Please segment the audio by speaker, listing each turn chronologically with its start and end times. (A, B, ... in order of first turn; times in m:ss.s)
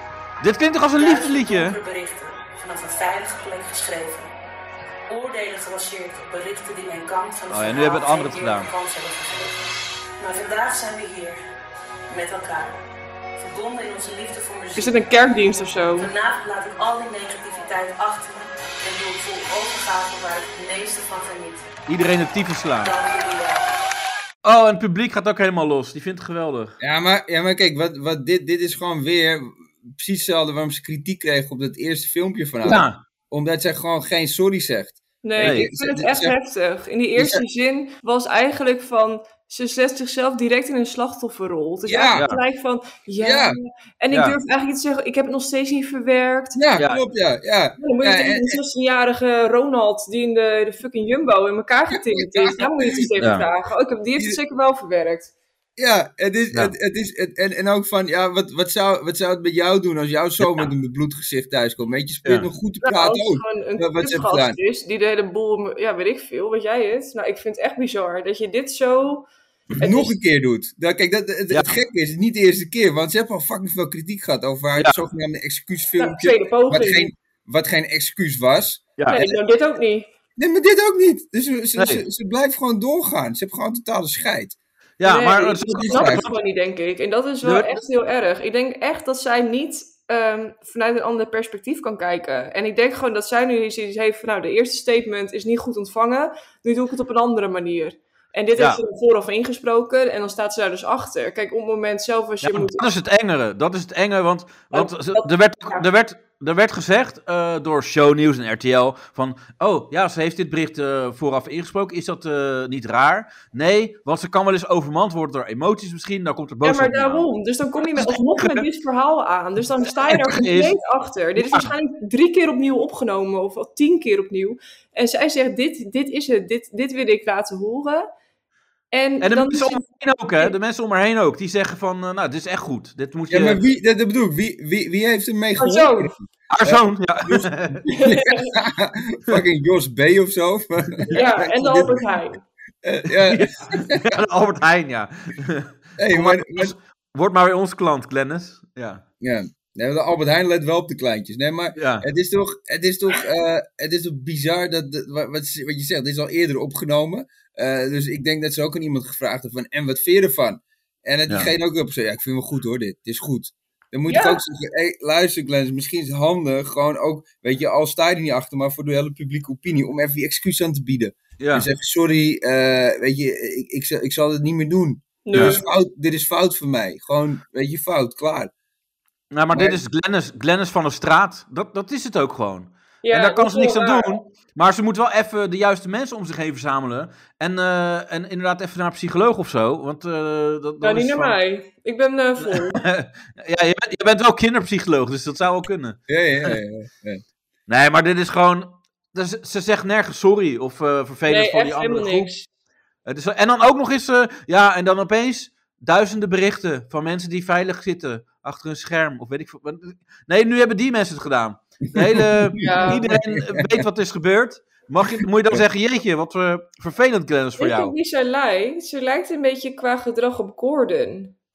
0:00.4-0:01.8 A
0:01.0-0:04.3 B
0:05.1-0:09.6 B
0:07.5-0:08.7 A
0:10.2-0:11.4 B
0:12.1-0:12.8 B
0:13.4-0:15.0 B
0:14.7-0:16.1 C
0:16.0-0:21.7 B
0:21.9-0:22.9 A
0:22.8-0:23.7 B
0:24.4-0:26.8 A
0:26.8-0:36.3 D
0:32.6-0:33.0 A
0:35.2-0:46.6 C
0:35.4-0:35.7 A
0:37.2-0:37.4 D
0:41.8-0:42.3 D
0:42.1-0:42.4 A
0:43.2-0:43.6 D
0:44.1-0:44.4 A
0:46.6-0:48.6 D
0:46.8-0:47.0 A
0:47.8-0:55.3 C
0:52.0-0:53.0 D
0:53.2-0:53.4 A
0:55.8-1:04.6 D
1:02.8-1:10.1 C
1:09.8-1:19.4 D
1:11.5-1:11.8 A
1:14.8-1:15.0 A
1:16.0-1:17.1 C
1:19.1-1:20.1 C
1:20.4-1:24.6 D
1:21.8-1:22.0 A
1:25.0-1:26.3 A
1:25.0-1:42.9 C
1:25.7-1:26.2 D
1:27.4-1:27.7 A
1:42.4-1:57.3 A
1:44.7-1:45.8 C
1:56.6-2:08.1 C
1:58.0-1:58.6 A
2:00.2-2:00.8 A
2:01.4-2:01.7 A
2:08.9-2:10.5 C
2:09.2-2:13.6 A
2:13.3-2:22.1 D
2:15.6-2:16.1 C
2:16.5-2:17.8 A
2:17.9-2:18.5 C
2:21.1-2:22.4 C
2:22.8-2:24.0 D
2:23.2-2:29.0 A
2:26.0-2:26.7 D
2:29.2-2:58.5 D
2:31.8-2:32.0 A
2:41.3-2:41.5 A
2:44.1-2:44.4 C
2:51.4-2:51.7 A
2:55.2-2:55.7 C
2:55.3-2:55.6 A
2:59.3-3:11.4 A
2:59.5-2:59.8 D
3:03.0-3:04.2 C
3:10.8-3:12.8 C
3:12.4-3:16.6 A
3:16.1-3:17.2 D
3:17.7-3:22.3 A
3:21.3-3:22.4 C
3:23.0-3:37.9 A
3:31.9-3:33.7 D
3:32.6-3:33.0 C
3:37.6-3:41.3 C